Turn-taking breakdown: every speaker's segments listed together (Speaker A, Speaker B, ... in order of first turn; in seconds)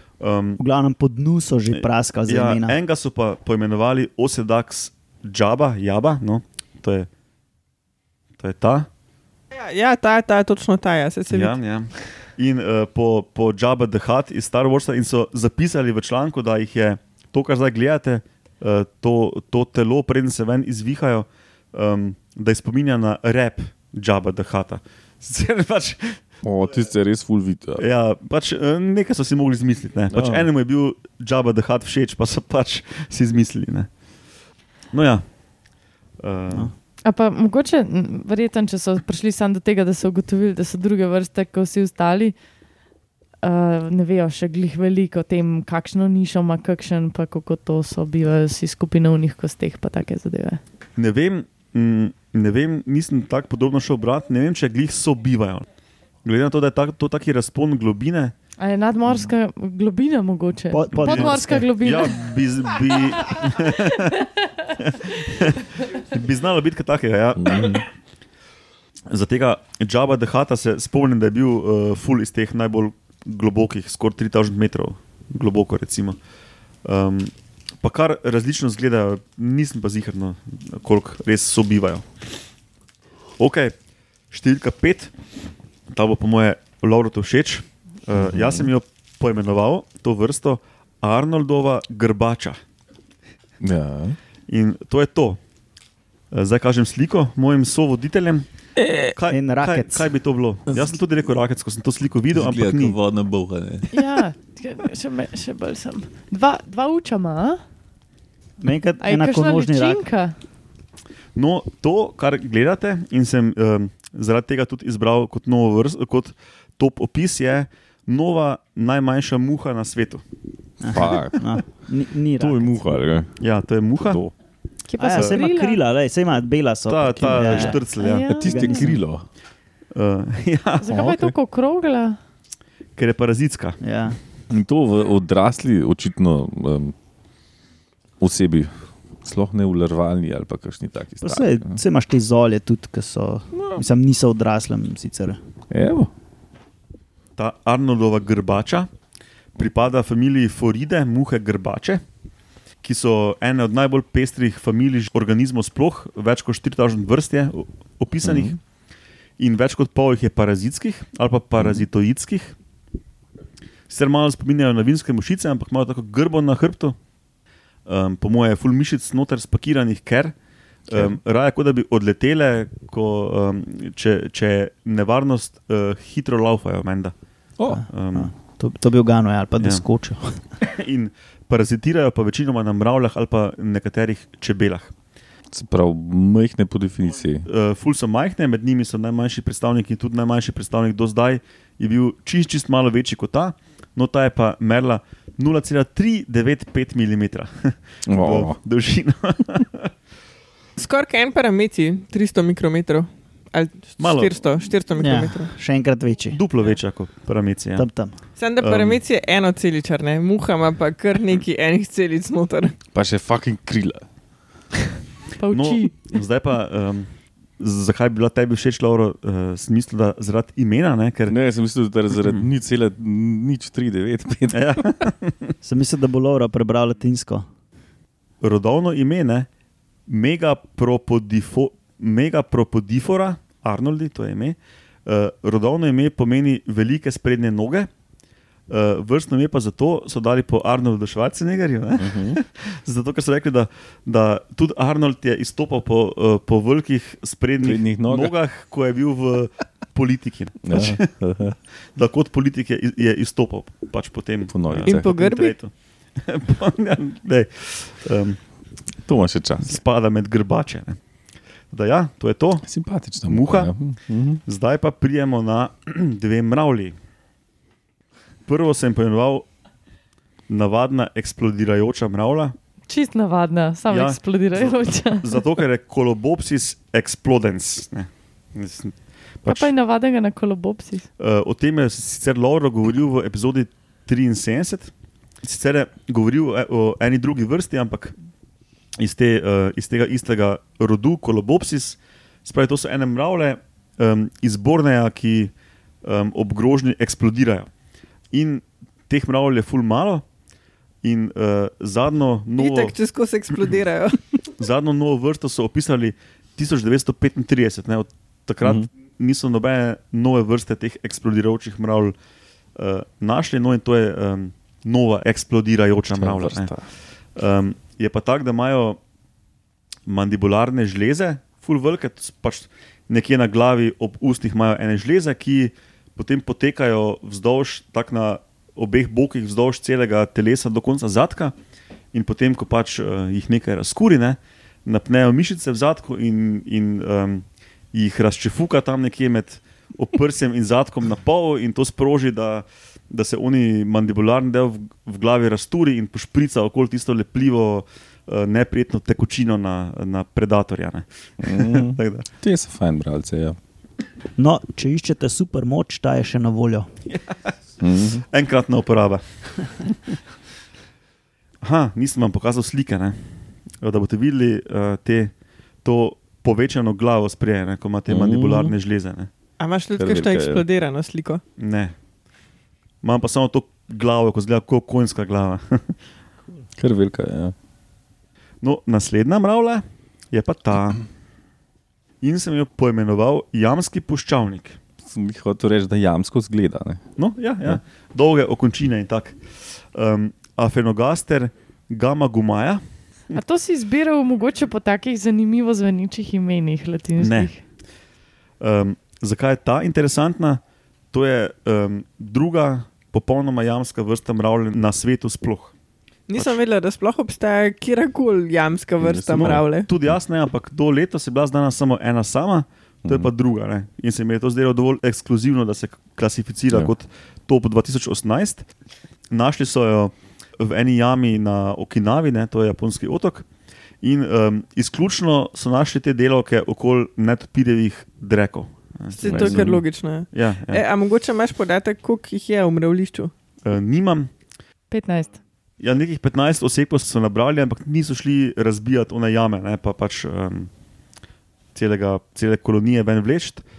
Speaker A: 0.2-0.6, 1.7-7.1, 8.4-8.9, 11.3-26.2, 27.8-33.9, 34.9-35.2, 36.2-36.7, 51.0-55.6, 56.2-58.3, 60.9-64.2, 64.8-67.8, 69.1-76.2, 76.8-82.0, 83.4-83.7, 84.3-85.1, 85.9-92.6, 94.5-95.4, 96.3-98.5, 99.0-103.0, 111.3-120.2, 123.4-124.2, 125.1-125.4, 126.9-128.3, 129.9-130.9, 133.0-133.8, 147.4-148.9, 149.6-152.0, 152.8-158.6, 159.4-162.6, 163.9-167.0, 167.8-170.3, 170.9-177.1, 177.9-178.3, 180.6-184.9, 187.4-199.9, 204.0-204.6, 206.3-207.8, 208.6-209.0, 215.5-221.3, 222.2-222.4, 224.5-225.5, 228.4-229.5, 230.1-237.9, 238.7-251.1, 251.9-258.4, 259.6-261.0, 261.7-262.7, 263.2-263.7, 264.4-266.9, 268.5-269.5, 270.5-272.5, 273.9-279.7, 281.2-284.9, 285.4-288.1, 289.0-295.5, 296.0-297.7, 298.3-300.2, 301.0-302.9, 304.6-312.1, 312.8-316.7, 317.3-319.0, 320.1-331.5, 332.1-352.3, 357.1-357.5, 358.2-360.1, 361.6-365.3, 365.8-369.3, 371.6-371.9, 373.0-375.9, 378.6-381.0, 382.2-384.8, 387.2-389.4, 389.9-392.8, 397.2-397.5, 398.6-400.6, 401.1-405.7, 409.9-418.7, 419.3-423.5, 424.0-430.8, 433.6-434.3, 435.8-440.7, 441.7-443.6
Speaker B: 0.6-2.8, 60.7-61.7, 99.3-100.1, 108.6-110.0, 120.8-122.8, 125.0-127.8, 128.4-129.0, 133.8-134.2, 141.2-145.4, 177.7-180.4, 204.9-206.4, 207.8-208.2, 225.6-227.4, 354.4-356.9
Speaker C: 9.5-11.6, 200.8-205.5, 208.4-212.8, 254.8-255.5, 302.6-304.3, 369.6-371.4, 406.3-409.9, 429.1-433.3
Speaker D: 26.4-27.8, 30.1-30.5, 67.4-67.8, 88.2-88.7, 93.6-94.2, 98.8-99.1, 100.7-101.0, 102.3-103.9, 120.9-121.7, 122.4-123.5, 124.0-124.3, 127.2-129.2, 130.9-131.3, 134.5-136.9, 138.2-141.8, 143.6-143.8, 145.7-146.1, 158.2-158.6, 177.6-177.8, 185.5-187.5, 198.1-198.6, 212.9-214.0, 221.3-225.1, 242.0-242.4, 247.6-248.3, 250.6-251.6, 254.5-255.3, 259.1-259.8, 262.6-264.4, 308.6-308.9, 316.1-316.9, 351.4-353.6, 357.8-358.2, 368.1-368.7, 370.0-370.6, 376.8-377.5, 385.0-387.0, 409.0-409.6, 413.0-413.3, 429.2-429.8
Speaker E: 37.0-42.3, 43.4-50.6, 58.6-62.3, 103.9-107.6, 109.0-110.3, 124.9-125.8, 127.8-128.8, 130.8-132.2, 215.4-215.9, 272.9-275.4, 279.5-281.1, 393.3-397.6, 434.9-435.3